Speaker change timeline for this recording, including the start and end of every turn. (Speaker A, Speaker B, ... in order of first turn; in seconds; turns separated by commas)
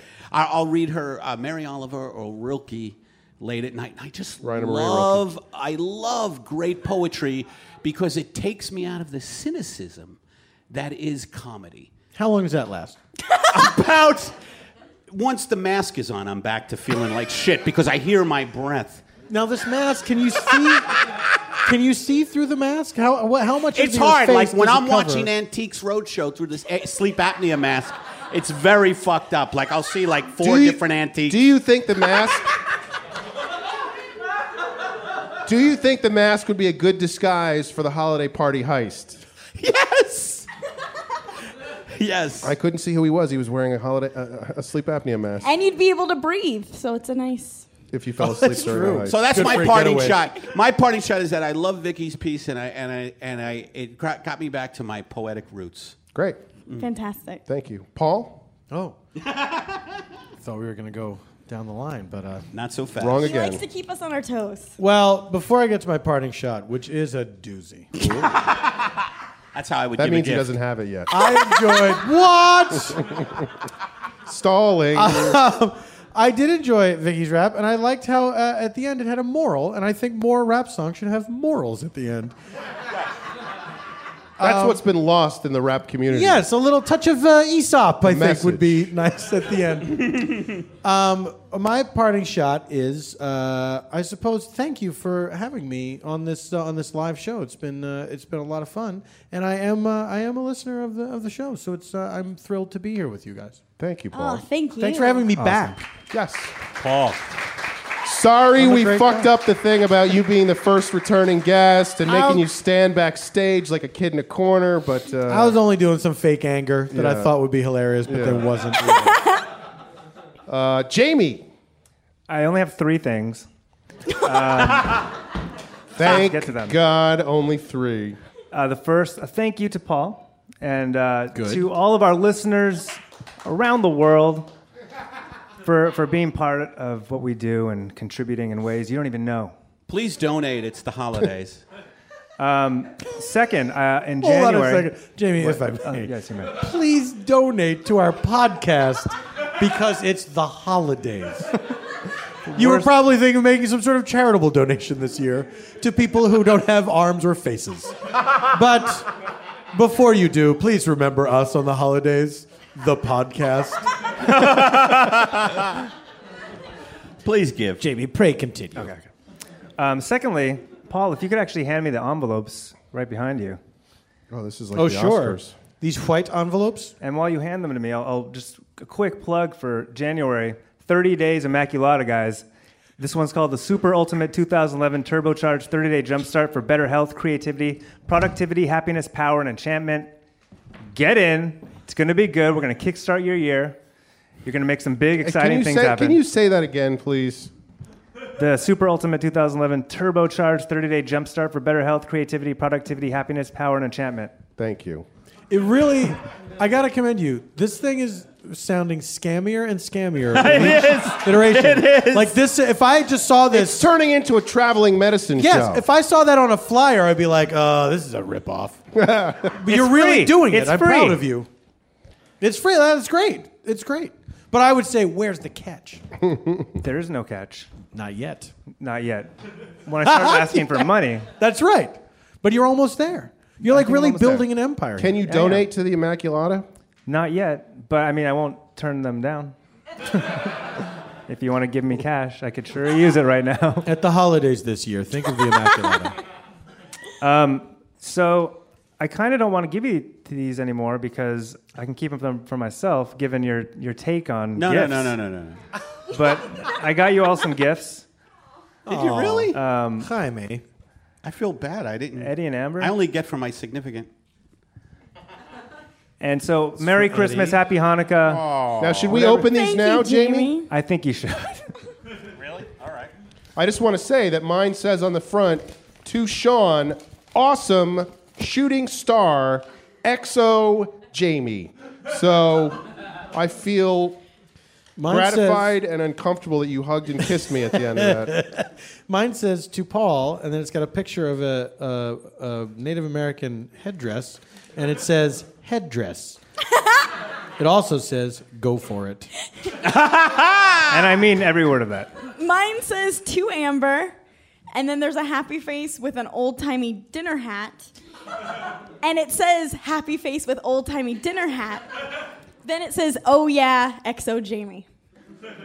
Speaker A: 0.3-10.2, Speaker B: 4.4-5.2, Speaker A: 10.7-11.9, Speaker C: 12.1-13.0, Speaker A: 13.5-14.3, Speaker A: 15.1-19.0, Speaker C: 19.3-20.9, Speaker C: 21.6-25.3, Speaker A: 23.7-31.4, Speaker B: 30.4-32.5, Speaker B: 35.5-39.2, Speaker A: 39.6-40.5, Speaker A: 41.9-42.5, Speaker B: 42.4-45.5, Speaker D: 45.4-47.7, Speaker B: 47.9-49.7, Speaker C: 48.2-50.2, Speaker A: 48.9-56.0, Speaker B: 56.1-56.4, Speaker D: 56.8-57.4, Speaker B: 57.5-58.5, Speaker C: 58.7-59.0, Speaker A: 59.3-59.8, Speaker C: 60.4-62.4, Speaker A: 62.5-63.3, Speaker B: 63.0-63.6, Speaker D: 63.2-64.8, Speaker C: 64.8-68.1, Speaker A: 68.0-68.9, Speaker A: 69.5-70.5, Speaker B: 70.0-71.1, Speaker C: 71.1-73.0, Speaker B: 73.0-73.4, Speaker B: 74.2-75.4, Speaker C: 74.9-82.3, Speaker C: 84.4-84.8, Speaker B: 84.4-86.5, Speaker C: 86.1-103.6, Speaker B: 88.0-88.9, Speaker B: 103.8-104.5, Speaker D: 104.1-105.3, Speaker C: 104.8-105.9, Speaker E: 105.4-105.8, Speaker B: 106.1-106.5, Speaker A: 106.8-107.2, Speaker B: 108.0-115.6, Speaker C: 108.6-109.3, Speaker C: 115.3-119.2, Speaker B: 116.9-117.3, Speaker B: 118.0-119.2, Speaker B: 120.5-121.5, Speaker E: 122.3-123.5, Speaker E: 124.1-125.1, Speaker B: 125.9-128.2, Speaker E: 126.0-126.8, Speaker E: 128.5-134.5, Speaker C: 131.3-131.7, Speaker E: 135.6-139.5, Speaker A: 139.9-141.6, Speaker E: 142.4-146.5, Speaker C: 144.2-151.6, Speaker E: 152.5-152.9, Speaker C: 152.5-157.9, Speaker C: 158.5-159.1, Speaker C: 159.7-163.9, Speaker A: 164.2-165.8, Speaker A: 167.2-167.8, Speaker C: 167.8-169.0, Speaker E: 168.8-169.0, Speaker E: 169.8-173.6, Speaker B: 174.3-175.6, Speaker C: 174.7-176.9, Speaker E: 177.0-182.4, Speaker E: 183.0-190.1, Speaker E: 190.9-193.8, Speaker E: 194.4-196.2, Speaker B: 195.2-197.5, Speaker E: 198.4-204.3, Speaker B: 204.6-205.1, Speaker C: 205.5-213.9, Speaker A: 210.3-212.4, Speaker B: 213.5-215.8, Speaker C: 215.4-218.8, Speaker B: 218.9-219.6, Speaker C: 219.6-221.5, Speaker E: 219.7-221.2, Speaker C: 222.4-226.0, Speaker B: 226.2-226.7, Speaker E: 226.8-227.7, Speaker C: 227.9-228.5, Speaker E: 228.8-231.3, Speaker C: 230.0-235.5, Speaker E: 233.7-234.4, Speaker B: 234.2-234.4, Speaker B: 235.0-236.7, Speaker E: 235.3-235.6, Speaker E: 237.1-239.5, Speaker E: 240.1-240.7, Speaker E: 241.3-243.9, Speaker C: 243.8-246.2, Speaker E: 247.2-255.2, Speaker A: 254.6-255.6, Speaker E: 256.1-258.1, Speaker A: 258.9-259.6, Speaker C: 258.9-260.6, Speaker E: 259.5-260.1, Speaker A: 261.2-264.1, Speaker E: 262.2-262.9, Speaker E: 266.2-268.4, Speaker C: 266.8-267.6, Speaker A: 268.3-269.4, Speaker B: 268.8-270.5, Speaker D: 269.2-270.7, Speaker E: 270.7-271.6, Speaker A: 272.4-273.1, Speaker B: 273.6-284.2, Speaker C: 285.0-285.7, Speaker B: 285.1-288.4, Speaker C: 287.9-296.4, Speaker C: 297.6-299.3, Speaker A: 299.8-300.9, Speaker E: 300.9-302.1, Speaker D: 302.3-304.1, Speaker D: 304.7-307.9, Speaker D: 309.0-311.9, Speaker D: 312.6-314.9